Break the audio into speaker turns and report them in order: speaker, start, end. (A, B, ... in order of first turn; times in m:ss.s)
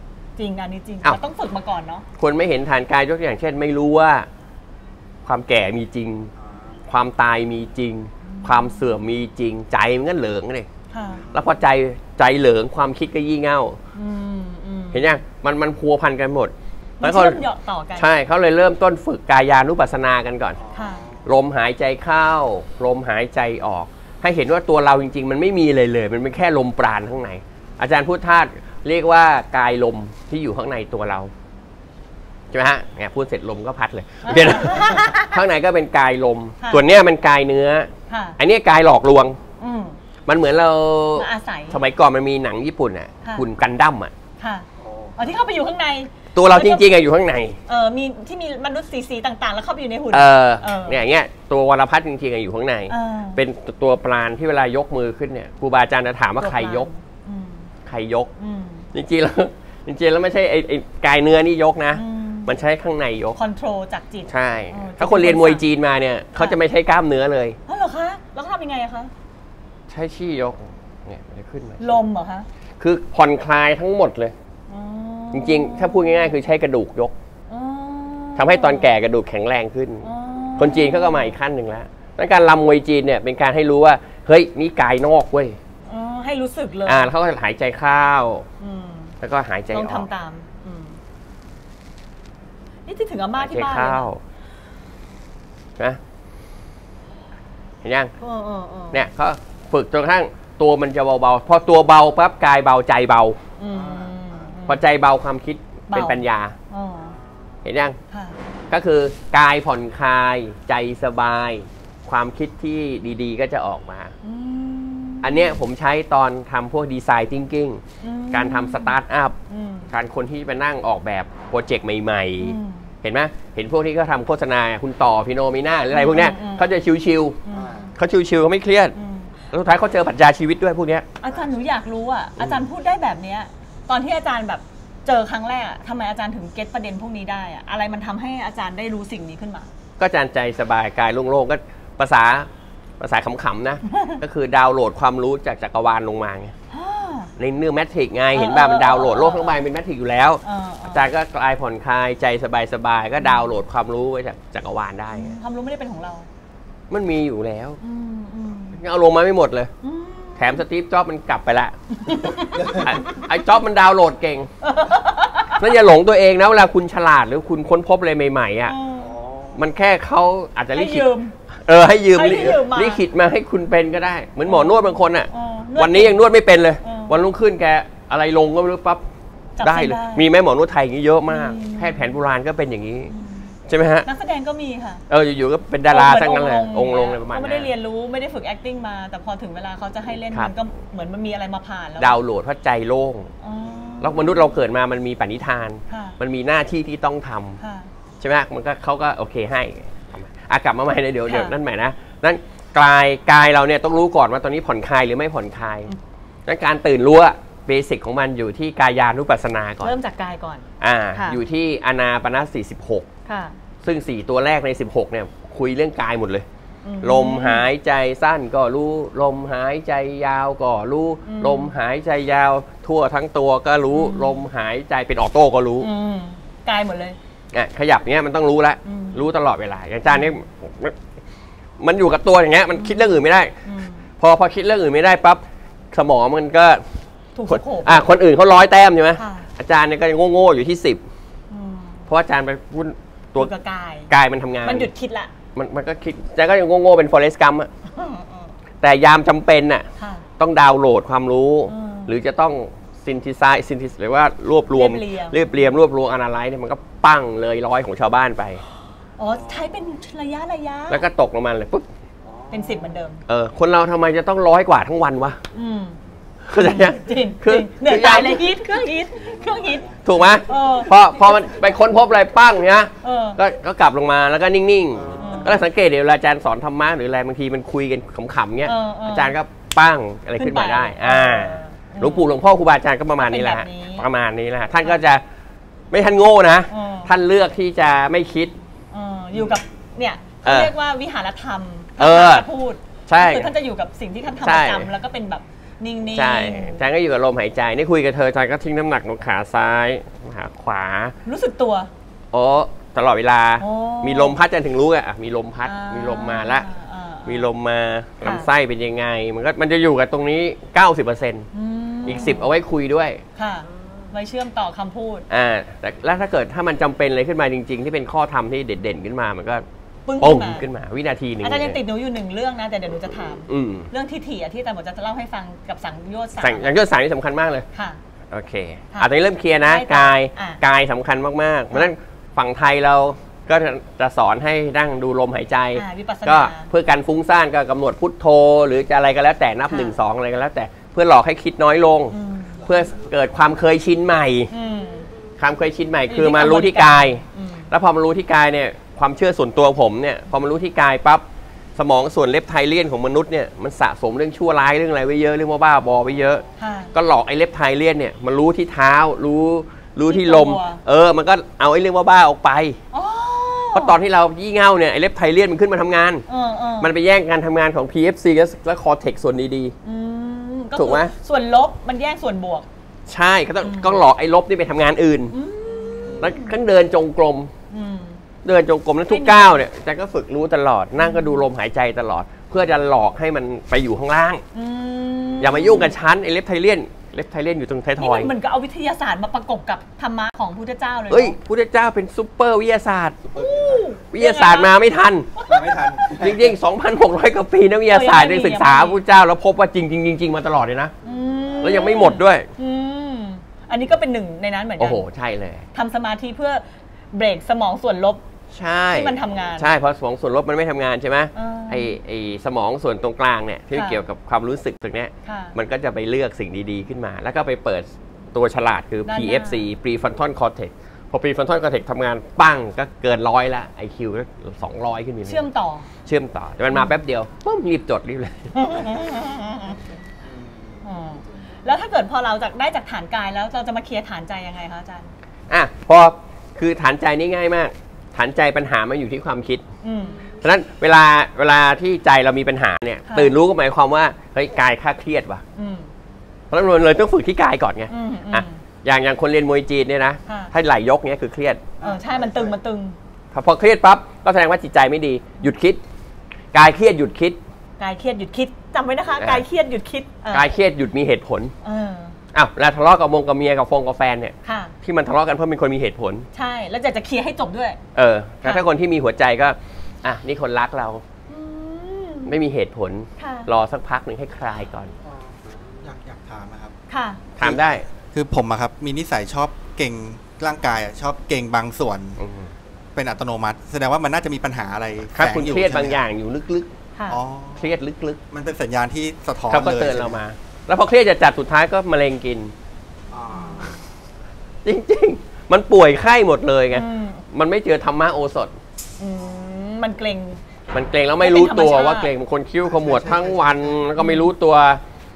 0:00.4-0:02.1 A
0:02.2-0:04.3 B
0:05.3-0:06.3 B
0:06.9-0:10.7 B
0:08.2-0:08.9 A
0:10.9-0:11.3 A
0:11.3-0:13.8 B
0:13.9-0:15.1 A
0:14.9-0:17.4 B
0:17.0-0:18.1 A
0:18.0-0:20.6 B
0:20.7-0:21.2 A
0:21.2-0:31.3 B
0:32.5-0:39.4 B
0:34.2-0:35.4 A
0:36.6-0:36.9 A
0:38.1-0:38.4 A
0:39.6-0:40.0 A
0:40.3-0:44.1 B
0:41.2-0:41.8 A
0:44.4-0:46.9 A
0:46.4-0:47.6 B
0:47.7-0:51.0 A
0:50.1-0:56.9 B
0:52.9-0:53.4 A
0:56.4-0:57.7 A
0:57.8-0:58.3 B
0:58.4-0:58.9 A
0:58.9-1:03.4 B
1:01.9-1:02.6 A
1:03.4-1:05.7 A
1:04.3-1:07.6 B
1:07.7-1:09.1 A
1:09.9-1:12.0 B
1:11.8-1:12.5 A
1:12.8-1:14.3 B
1:14.7-1:16.3 A
1:15.3-1:17.1 B
1:17.5-1:18.9 A
1:18.4-1:25.6 B
1:20.0-1:21.4 A
1:25.9-1:27.1 A
1:26.8-1:28.5 B
1:28.6-1:29.1 A
1:29.2-1:30.1 B
1:29.7-1:31.0 A
1:32.9-1:34.1 A
1:33.4-1:34.2 B
1:37.8-1:38.1 B
1:38.2-1:39.0 A
1:38.9-1:43.4 B
1:43.6-1:44.8 A
1:44.7-1:46.6 B
1:45.9-1:47.2 A
1:47.6-1:48.0 B
1:48.1-1:48.4 A
1:48.7-1:54.1 B
1:54.2-1:55.6 A
1:55.2-1:59.4 B
1:58.0-1:59.0 A
1:59.5-1:59.9 A
1:59.9-2:07.4 B
2:02.4-2:02.9 A
2:05.9-2:06.7 A
2:07.4-2:07.9 A
2:07.9-2:09.0 B
2:09.0-2:09.4 A
2:09.5-2:11.1 B
2:11.2-2:19.7 A
2:12.4-2:12.6 B
2:20.0-2:22.5 B
2:23.0-2:26.5 B
2:23.9-2:24.2 A
2:26.7-2:27.3 A
2:27.4-2:35.4 B
2:28.4-2:29.6 A
2:30.4-2:31.1 A
2:33.2-2:33.5 A
2:35.2-2:36.3 A
2:36.9-2:37.8 B
2:37.8-2:38.8 A
2:38.8-2:39.7 B
2:39.8-2:40.6 A
2:40.4-2:44.5 B
2:42.0-2:43.0 A
2:44.6-2:45.7 A
2:45.5-2:48.8 B
2:48.7-2:49.2 A
2:49.3-2:49.5 C
2:49.6-2:59.0 B
2:50.7-2:51.4 A
2:52.1-2:53.0 A
2:54.5-2:56.2 A
2:56.8-2:57.2 A
2:59.6-3:00.3 A
2:59.6-3:03.1 B
3:01.3-3:02.2 A
3:03.1-3:03.5 A
3:03.7-3:04.1 B
3:04.0-3:05.0 A
3:05.1-3:07.7 B
3:05.9-3:12.2 A
3:12.0-3:13.3 B
3:13.4-3:14.6 A
3:14.0-3:17.6 B
3:15.9-3:16.2 A
3:17.6-3:17.9 A
3:18.2-3:25.9 B
3:21.3-3:21.6 A
3:26.5-3:30.0 B
3:29.8-3:31.4 A
3:30.8-3:33.1 B
3:33.3-3:33.6 A
3:33.8-3:36.5 B
3:36.8-3:37.7 A
3:37.0-3:45.9 B
3:41.2-3:41.7 A
3:43.9-3:44.4 A
3:45.8-3:47.2 A
3:47.5-3:51.0 B
3:48.8-3:49.2 A
3:50.1-3:50.3 A
3:51.8-3:53.6 B
3:53.6-3:54.1 A
3:54.2-3:56.8 B
3:57.4-3:58.1 A
3:57.5-4:01.0 B
3:59.2-3:59.5 A
4:01.5-4:02.0 A
4:02.1-4:03.5 B
4:03.4-4:04.1 A
4:04.1-4:04.9 B
4:04.6-4:05.3 A
4:05.6-4:07.7 B
4:07.9-4:08.5 A
4:08.8-4:09.9 B
4:10.0-4:10.3 A
4:10.4-4:18.6 B
4:11.7-4:12.1 A
4:14.7-4:15.4 A
4:19.2-4:21.0 A
4:20.9-4:21.9 B
4:22.5-4:23.2 A
4:23.3-4:25.4 B
4:25.5-4:26.0 A
4:26.5-4:28.5 B
4:26.6-4:31.3 A
4:30.0-4:45.2 B
4:33.0-4:33.4 A
4:35.2-4:35.6 A
4:38.6-4:39.4 A
4:40.4-4:42.2 A
4:43.2-4:44.1 A
4:45.9-4:48.5 B
4:46.7-4:47.1 A
4:48.9-4:56.9 A
4:50.4-4:50.7 B
4:52.0-4:52.5 B
4:53.1-4:53.5 B
4:54.4-4:54.9 B
4:56.1-5:01.1 B
5:01.2-5:01.9 A
5:02.3-5:06.7 B
5:03.6-5:04.4 A
5:05.6-5:07.5 A
5:07.3-5:11.5 B
5:08.2-5:08.5 A
5:11.5-5:12.5 A
5:12.0-5:13.2 B
5:13.4-5:15.3 A
5:15.3-5:19.6 B
5:20.1-5:20.6 A
5:20.2-5:21.8 B
5:21.4-5:26.7 A
5:23.5-5:23.9 B
5:26.4-5:27.6 B
5:27.7-5:28.0 A
5:28.3-5:44.5 B
5:29.6-5:30.6 A
5:35.8-5:36.7 A
5:39.7-5:40.0 A
5:42.1-5:42.6 A
5:44.5-5:45.1 A
5:45.4-5:51.2 B
5:46.1-5:47.7 A
5:51.8-5:56.4 B
5:56.6-5:56.9 A
5:56.9-6:02.8 B
6:00.1-6:00.8 A
6:02.9-6:04.0 A
6:03.7-6:06.2 B
6:06.3-6:06.9 A
6:06.8-6:09.7 B
6:09.8-6:12.7 A
6:10.8-6:11.1 B
6:13.1-6:15.4 B
6:13.6-6:14.0 A
6:15.3-6:16.6 A
6:16.2-6:17.5 B
6:17.7-6:18.2 A
6:18.4-6:24.4 B
6:19.1-6:19.6 A
6:21.0-6:21.4 A
6:24.5-6:25.9 A
6:25.4-6:28.3 B
6:28.0-6:31.4 A
6:31.1-6:33.2 B
6:33.3-6:34.7 A
6:33.4-6:33.8 C
6:34.1-6:35.3 B
6:35.4-6:35.9 A
6:35.5-6:36.6 C
6:36.1-6:40.9 B
6:37.9-6:39.0 A
6:41.0-6:45.0 A
6:41.6-6:42.5 B
6:44.8-6:45.6 B
6:45.7-6:48.2 A
6:48.5-7:05.4 B
6:48.9-6:49.7 A
6:51.4-6:52.0 A
6:53.7-6:54.0 A
6:55.2-6:55.6 A
6:59.1-6:59.7 A
7:05.3-7:05.9 A
7:06.0-7:08.8 B
7:08.6-7:09.8 A
7:10.4-7:10.8 C
7:10.8-7:15.1 A
7:15.5-7:19.6 B
7:19.8-7:20.2 A
7:20.4-7:25.4 B
7:23.1-7:23.4 A
7:25.6-7:25.9 A
7:26.5-7:31.6 B
7:27.9-7:28.6 A
7:30.3-7:30.5 A
7:31.8-7:33.0 A
7:33.3-7:35.8 B
7:36.5-7:37.4 B
7:37.8-7:40.5 A
7:39.2-7:39.4 B
7:40.3-7:41.5 B
7:41.6-7:42.2 A
7:42.3-7:46.3 B
7:44.4-7:44.7 A
7:46.3-7:47.8 A
7:47.9-7:51.0 B
7:51.3-7:52.3 A
7:52.3-7:54.9 B
7:53.2-7:53.5 A
7:55.6-7:56.7 C
7:56.9-7:57.2 A
7:57.4-7:57.9 B
7:57.4-8:02.2 C
8:02.2-8:02.5 B
8:03.0-8:06.0 C
8:05.1-8:06.7 B
8:07.0-8:07.2 A
8:07.1-8:07.7 C
8:07.6-8:08.2 B
8:08.3-8:10.2 C
8:09.5-8:12.5 B
8:13.1-8:13.8 C
8:13.3-8:13.8 A
8:14.6-8:18.5 B
8:16.7-8:17.2 A
8:19.0-8:20.4 A
8:20.7-8:24.8 B
8:21.2-8:22.1 A
8:22.6-8:23.9 C
8:24.0-8:24.3 A